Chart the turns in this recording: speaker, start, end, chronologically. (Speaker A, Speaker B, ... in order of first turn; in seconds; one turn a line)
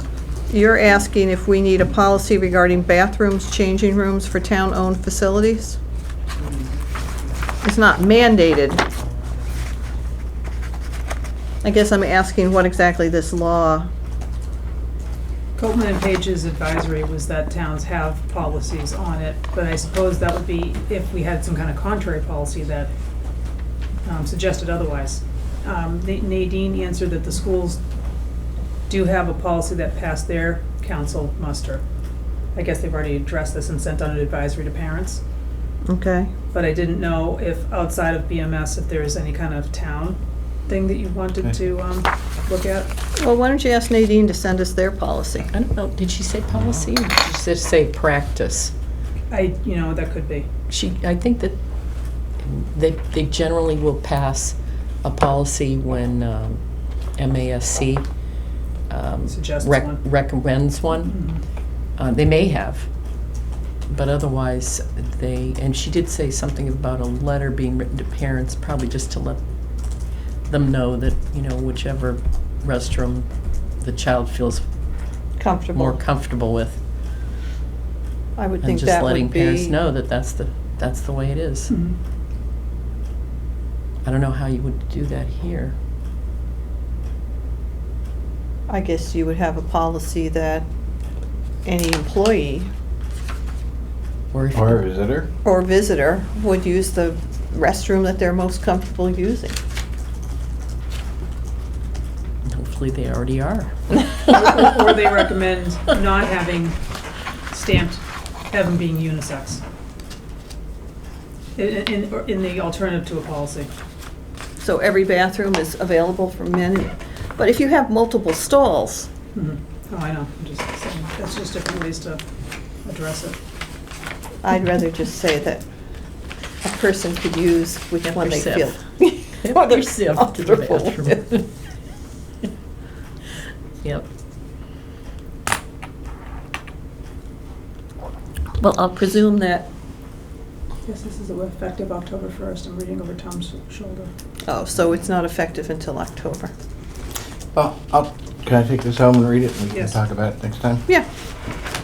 Speaker A: 0.5-5.8
Speaker A: 7.6-8.8
Speaker A: 11.6-13.9
Speaker B: 15.6-22.9
Speaker B: 24.1-27.8
Speaker B: 28.9-31.8
Speaker B: 32.5-35.2
Speaker A: 35.9-36.3
Speaker B: 36.5-42.9
Speaker A: 43.2-45.5
Speaker C: 45.5-48.7
Speaker B: 49.3-50.5
Speaker C: 50.7-51.6
Speaker C: 52.4-56.6
Speaker C: 57.2-58.0
Speaker C: 58.9-61.1
Speaker B: 59.3-60.0
Speaker B: 61.0-61.4
Speaker C: 62.0-62.9
Speaker C: 63.9-69.4
Speaker C: 70.5-73.3
Speaker C: 73.8-74.6
Speaker A: 75.4-76.0
Speaker C: 75.7-76.8
Speaker A: 78.4-79.8
Speaker C: 78.6-81.7
Speaker B: 81.7-82.0
Speaker C: 84.0-85.8
Speaker A: 88.7-90.7
Speaker A: 91.7-92.7
Speaker C: 94.3-94.8
Speaker D: 94.5-95.3
Speaker A: 95.4-99.6
Speaker C: 102.5-104.3
Speaker B: 104.2-106.8
Speaker B: 107.5-109.6
Speaker B: 111.6-113.7
Speaker A: 114.6-119.1
Speaker B: 119.3-122.2
Speaker B: 122.8-123.4
Speaker A: 124.4-125.7
Speaker A: 126.6-131.2
Speaker C: 128.1-128.7
Speaker C: 129.4-131.5
Speaker A: 138.6-139.7
Speaker B: 140.8-144.1
Speaker A: 144.5-146.5
Speaker D: 147.5-150.8
Speaker B: 149.7-150.0